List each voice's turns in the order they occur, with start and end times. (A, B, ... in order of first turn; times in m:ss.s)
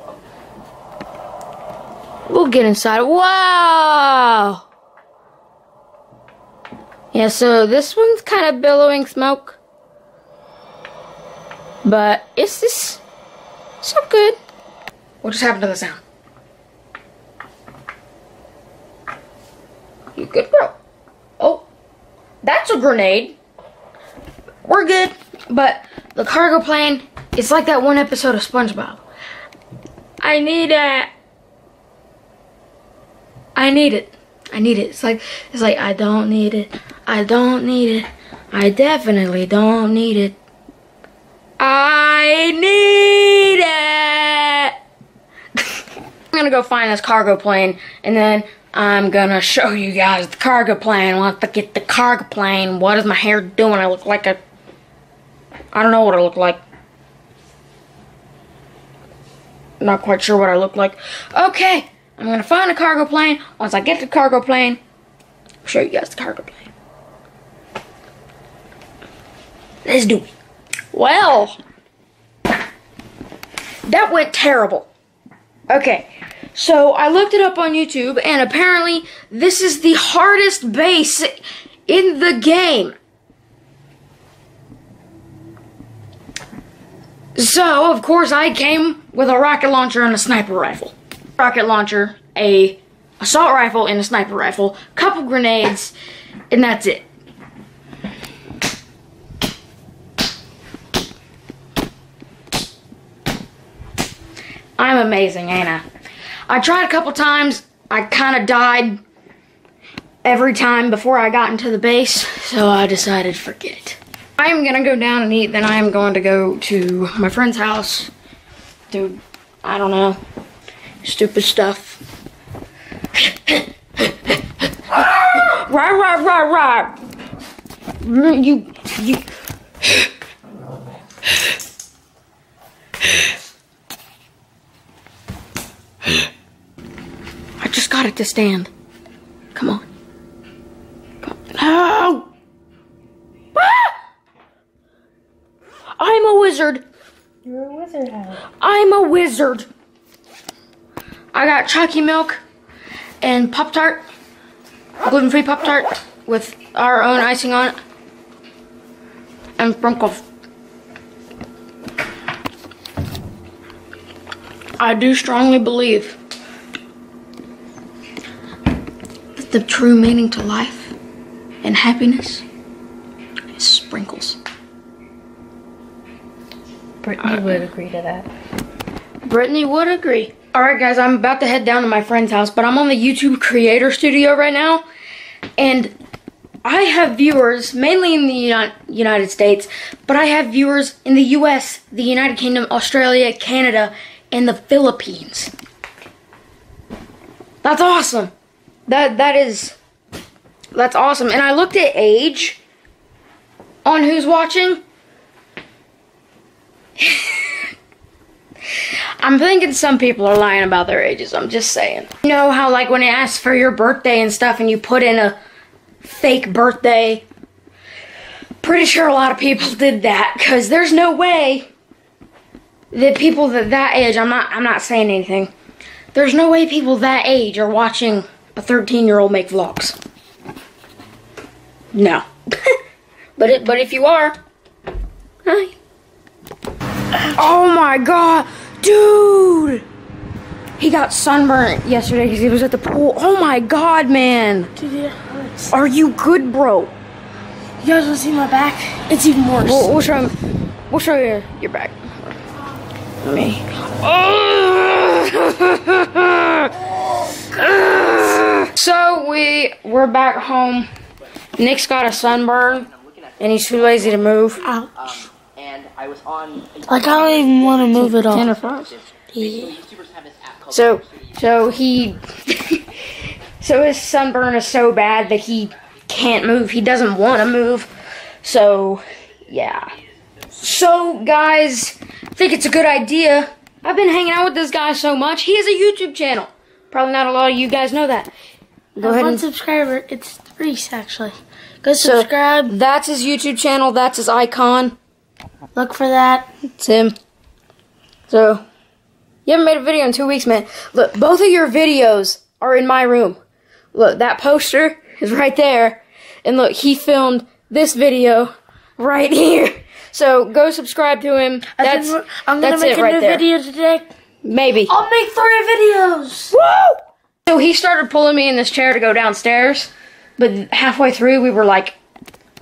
0:02.3-0:04.6 A
0:07.1-0:09.6 A
0:11.8-0:13.0 A
0:13.8-0:14.4 A
0:15.2-0:16.0 A
0:20.2-0:20.7 A
0:21.4-0:21.6 A
0:22.4-0:23.4 A
0:24.6-0:29.0 A
0:30.2-0:31.1 A
0:33.6-0:40.4 A
0:41.6-0:44.7 A
0:46.3-0:54.4 A
0:55.7-0:56.6 A
0:59.8-1:04.8 A
1:05.6-1:06.7 A
1:09.8-1:10.3 A
1:10.9-1:11.6 A
1:13.9-1:14.9 A
1:15.7-1:22.9 A
1:27.4-1:35.9 A
1:36.5-1:37.0 A
1:44.8-1:45.8 A
1:46.5-1:49.0 A
1:50.2-1:58.1 A
1:58.9-2:00.2 A
2:01.0-2:02.0 A
2:03.2-2:04.3 A
2:04.9-2:07.0 A
2:08.0-2:09.2 A
2:17.6-2:18.7 A
2:19.5-2:19.8 A
2:21.2-2:22.3 A
2:23.5-2:23.9 A
2:26.0-2:26.8 A
2:27.4-2:28.4 B
2:28.6-2:29.7 A
2:31.3-2:32.4 A
2:33.2-2:34.0 A
2:35.0-2:37.8 A
2:39.6-2:40.2 A
2:44.8-2:46.2 A
2:49.4-2:50.9 A
2:51.6-2:52.4 A
2:53.5-2:54.4 A
2:57.0-2:58.3 B
2:57.2-2:57.7 A
2:59.2-3:04.8 A
3:05.6-3:05.9 A
3:06.6-3:15.5 A
3:17.6-3:18.3 A
3:18.9-3:19.8 A
3:20.7-3:22.6 A
3:23.8-3:24.8 A
3:27.0-3:27.6 A
3:29.2-3:35.4 A
3:36.0-3:37.2 A
3:38.6-3:41.7 A
3:42.9-3:45.5 A
3:46.1-3:50.0 A
3:51.9-3:52.7 A
3:53.4-3:54.4 A
3:55.4-3:55.7 A
3:57.3-3:59.8 A
4:00.8-4:04.7 A
4:04.8-4:05.7 B
4:05.7-4:06.9 A
4:07.8-4:09.9 B
4:09.6-4:10.4 A
4:10.9-4:12.4 A
4:13.2-4:16.8 A
4:17.3-4:20.9 A
4:21.6-4:22.9 A
4:22.5-4:24.3 C
4:23.4-4:24.6 A
4:24.6-4:24.9 B
4:24.9-4:31.8 C
4:26.9-4:28.5 B
4:27.9-4:28.9 A
4:29.3-4:29.8 B
4:30.7-4:32.8 A
4:33.6-4:37.9 A
4:38.4-4:39.9 A
4:40.6-4:48.3 A
4:49.0-4:49.5 A
4:49.0-4:52.7 B
4:52.0-4:55.0 A
4:55.7-4:56.5 B
4:56.8-4:57.1 A
4:58.3-4:58.6 A
4:59.4-5:03.4 A
5:03.9-5:13.4 A
5:11.8-5:14.1 B
5:14.4-5:14.9 A
5:14.9-5:16.5 B
5:16.5-5:22.0 A